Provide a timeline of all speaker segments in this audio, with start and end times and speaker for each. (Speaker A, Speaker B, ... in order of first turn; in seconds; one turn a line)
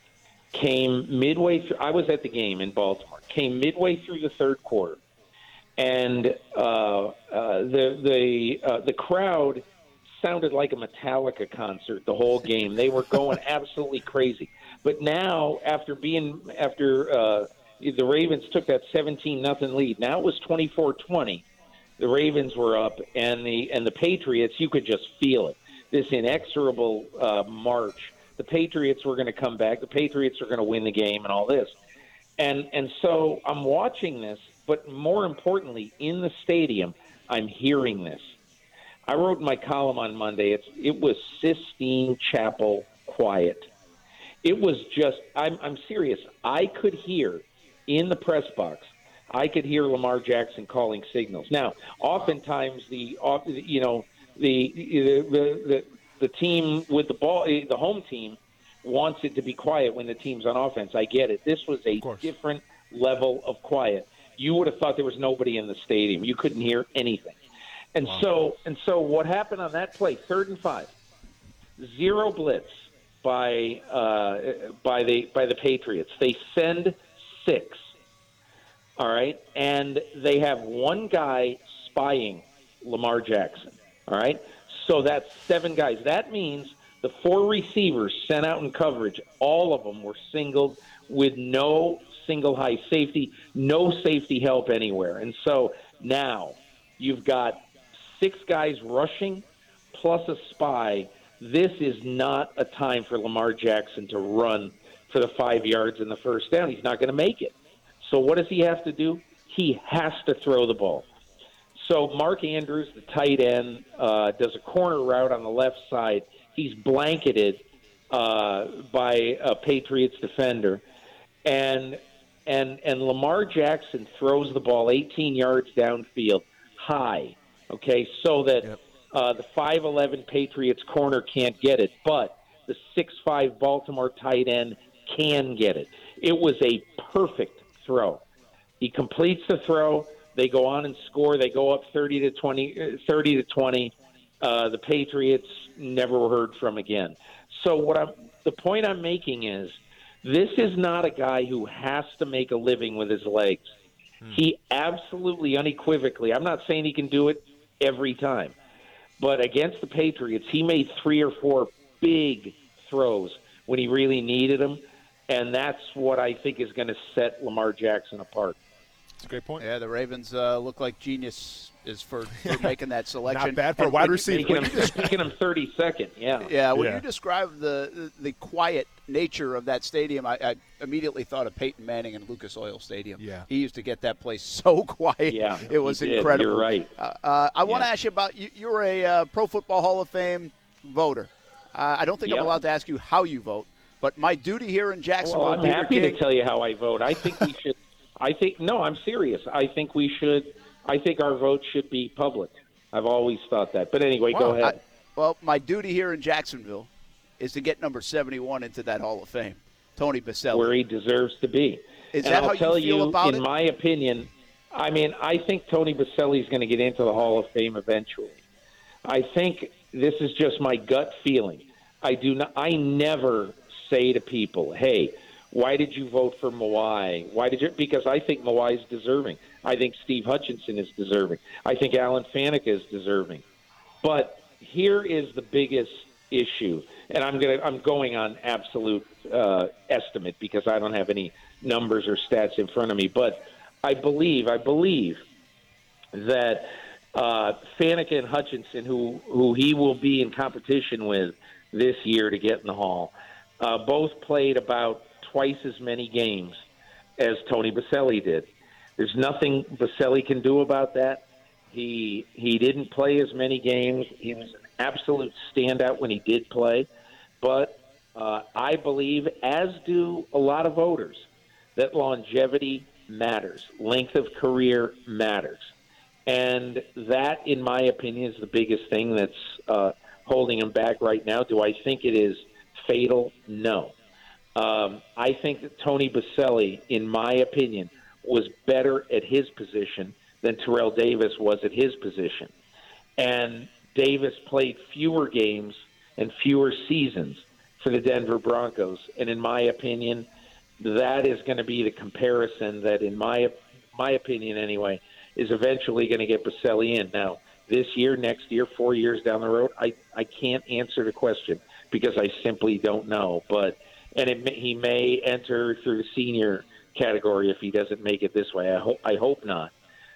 Speaker A: 0.5-5.0
Speaker A: 5.8-9.7
Speaker A: 10.2-21.4
Speaker A: 22.0-31.7
Speaker A: 32.4-38.2
Speaker A: 39.1-43.7
Speaker A: 44.4-67.4
Speaker B: 62.0-62.3
Speaker A: 67.9-70.9
Speaker A: 71.8-77.8
Speaker A: 79.0-111.1
Speaker A: 111.8-120.8
Speaker A: 121.5-138.2
Speaker A: 138.8-153.6
Speaker A: 154.3-158.6
Speaker A: 159.2-168.6
Speaker B: 169.2-169.6
Speaker C: 169.6-175.0
Speaker B: 172.4-172.7
Speaker B: 173.3-175.0
Speaker A: 174.3-176.5
Speaker C: 176.4-196.2
Speaker B: 176.8-177.0
Speaker B: 183.2-183.5
Speaker A: 185.3-186.9
Speaker A: 192.3-192.5
Speaker A: 195.2-204.8
Speaker C: 204.3-210.7
Speaker A: 210.5-218.4
Speaker C: 212.1-213.4
Speaker A: 219.1-233.4
Speaker A: 234.0-245.2
Speaker A: 246.1-256.6
Speaker A: 257.2-266.9
Speaker A: 267.4-275.7
Speaker A: 276.3-283.9
Speaker A: 284.6-292.5
Speaker A: 293.2-300.3
Speaker A: 300.8-319.7